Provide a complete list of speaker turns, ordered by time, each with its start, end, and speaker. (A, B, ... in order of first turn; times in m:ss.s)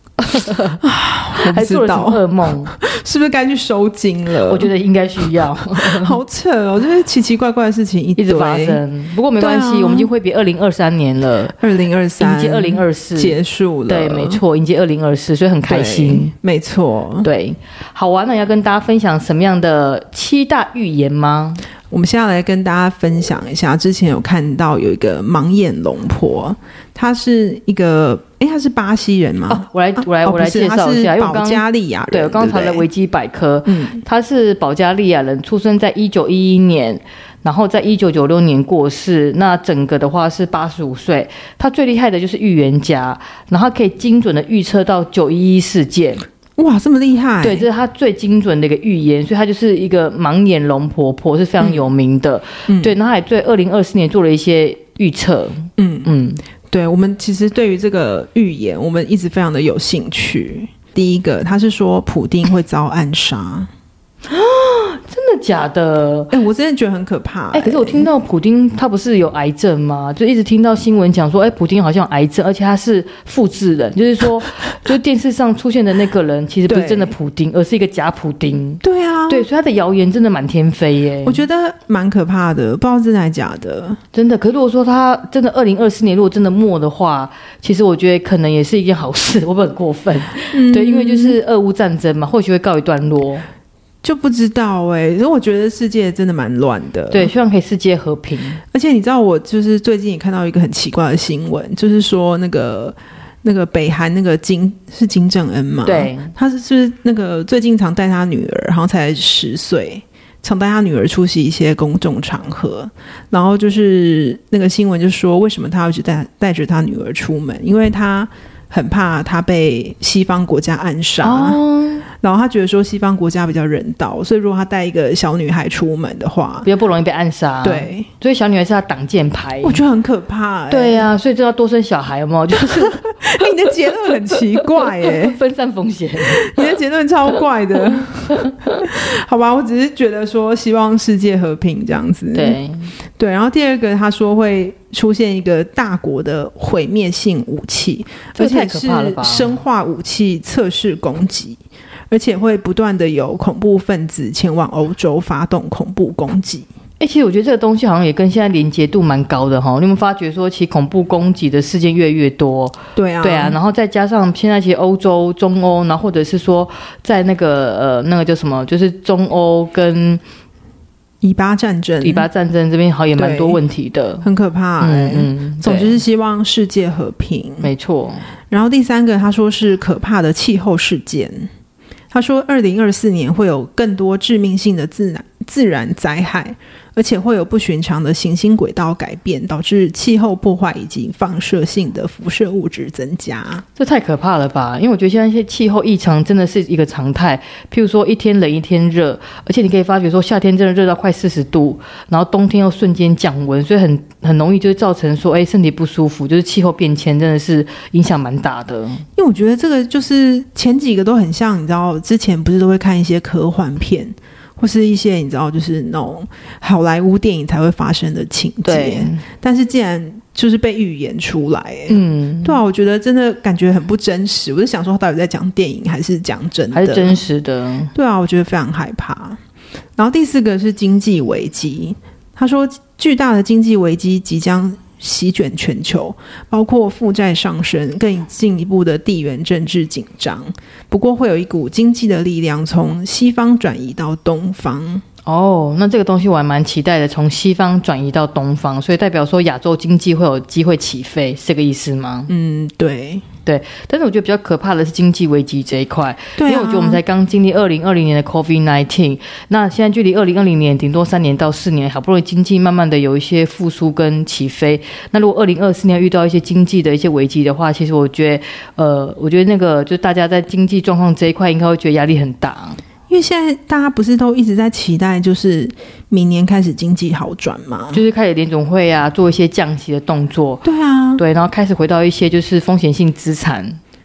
0:00.2-0:00.8 A
0:00.8-0:08.8 B
0:01.4-0:02.7 A
0:04.5-0:06.2 A
0:08.2-0:11.6 A
0:09.4-0:10.1 B
0:11.6-0:14.4 B
0:12.2-0:13.4 A
0:13.9-0:16.3 A
0:15.7-0:17.3 B
0:17.2-0:21.6 A
0:21.9-0:32.9 B
0:29.5-0:46.2 A
0:33.7-0:34.0 B
0:46.6-0:47.7 B
0:47.4-0:56.4 A
0:52.7-0:52.9 B
0:55.8-0:56.1 B
0:56.6-1:03.7 B
1:04.3-1:06.3 A
1:06.3-1:08.1 B
1:07.5-1:21.4 A
1:16.7-1:17.1 B
1:18.8-1:19.5 B
1:21.2-1:24.0 B
1:24.1-1:33.4 A
1:30.5-1:31.4 B
1:34.0-1:37.3 B
1:37.1-1:38.6 A
1:38.7-2:01.6 B
1:45.8-1:46.3 A
2:01.2-2:02.0 A
2:02.1-2:06.7 B
2:06.6-2:09.8 A
2:07.6-2:08.1 B
2:09.6-2:11.1 B
2:10.7-2:13.0 A
2:12.7-2:15.4 B
2:14.3-2:16.6 A
2:16.2-2:22.6 B
2:17.9-2:18.8 A
2:22.3-2:22.9 A
2:23.2-2:31.6 B
2:28.4-2:29.6 A
2:32.1-2:36.7 B
2:37.0-2:50.2 A
2:43.0-2:43.6 B
2:51.2-2:52.3 B
2:52.0-2:54.2 A
2:53.2-2:53.6 B
2:54.2-2:57.7 B
2:54.8-2:55.9 A
2:57.6-2:58.2 A
2:58.5-3:01.5 B
3:02.1-3:13.6 B
3:13.8-3:29.0 A
3:29.2-3:47.2 B
3:38.6-3:39.2 A
3:41.9-3:42.6 A
3:46.7-3:47.9 A
3:47.9-3:49.4 B
3:50.0-4:05.0 B
4:05.2-4:12.3 A
4:12.3-4:13.2 B
4:13.4-4:32.8 A
4:16.4-4:17.0 B
4:33.1-4:38.0 B
4:37.9-4:40.6 A
4:40.6-4:41.2 B
4:41.2-4:43.8 A